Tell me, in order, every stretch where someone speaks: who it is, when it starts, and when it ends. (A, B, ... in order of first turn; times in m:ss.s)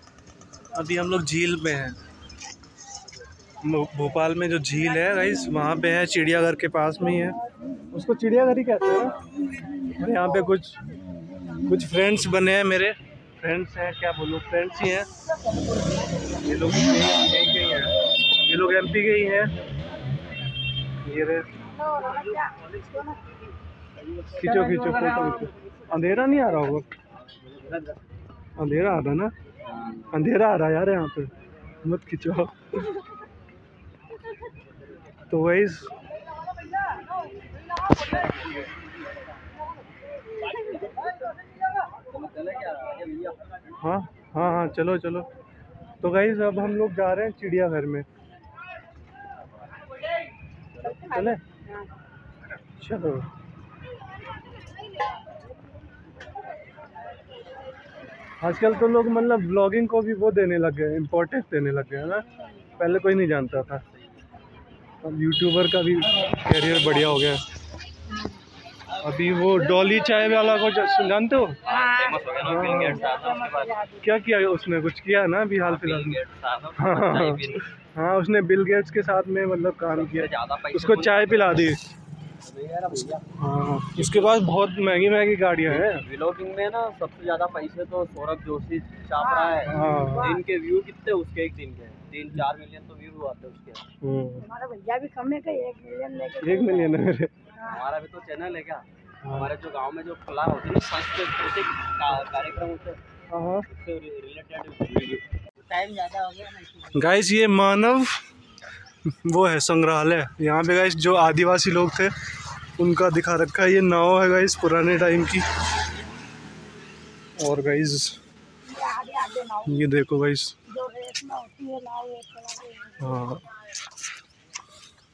0:00.7-0:02.0 A
0:03.6-0:07.4 A
0:07.9-0:09.2 A
0:09.9-0:10.8 A
0:11.6-0:15.1 A
0:16.3-0:19.5 A
0:21.0-0:21.5 A
0:21.8-0:23.2 B
0:24.2-0:25.4 C
0:24.3-0:26.9 A
0:27.2-0:28.0 C
0:28.6-0:29.3 A
0:29.7-0:30.1 C
0:30.1-0:32.9 A
0:35.3-0:35.9 A
0:37.9-0:38.8 C
0:42.0-0:43.5 C
0:43.8-0:45.3 A
0:46.0-0:48.1 A
0:51.0-0:51.9 B
0:51.0-0:51.4 A
0:52.7-0:53.3 A
0:58.4-1:03.8 A
1:05.0-1:07.4 A
1:09.0-1:11.8 A
1:11.6-1:13.9 C
1:12.4-1:13.1 A
1:14.0-1:16.2 A
1:15.6-1:17.7 C
1:16.8-1:21.8 A
1:19.9-1:21.8 C
1:22.4-1:23.2 C
1:23.4-1:26.0 A
1:23.9-1:24.4 C
1:25.6-1:33.8 C
1:29.4-1:30.2 B
1:29.6-1:30.4 A
1:34.0-1:34.5 A
1:34.4-1:36.9 B
1:36.4-1:37.3 A
1:37.6-1:43.0 C
1:39.2-1:39.5 A
1:43.3-1:43.6 A
1:43.6-1:47.1 C
1:46.9-1:48.2 A
1:49.0-1:52.1 A
1:52.8-1:55.4 A
1:57.4-1:58.2 A
1:58.7-1:59.7 B
1:59.6-2:00.6 A
2:00.7-2:03.0 B
2:03.0-2:03.4 A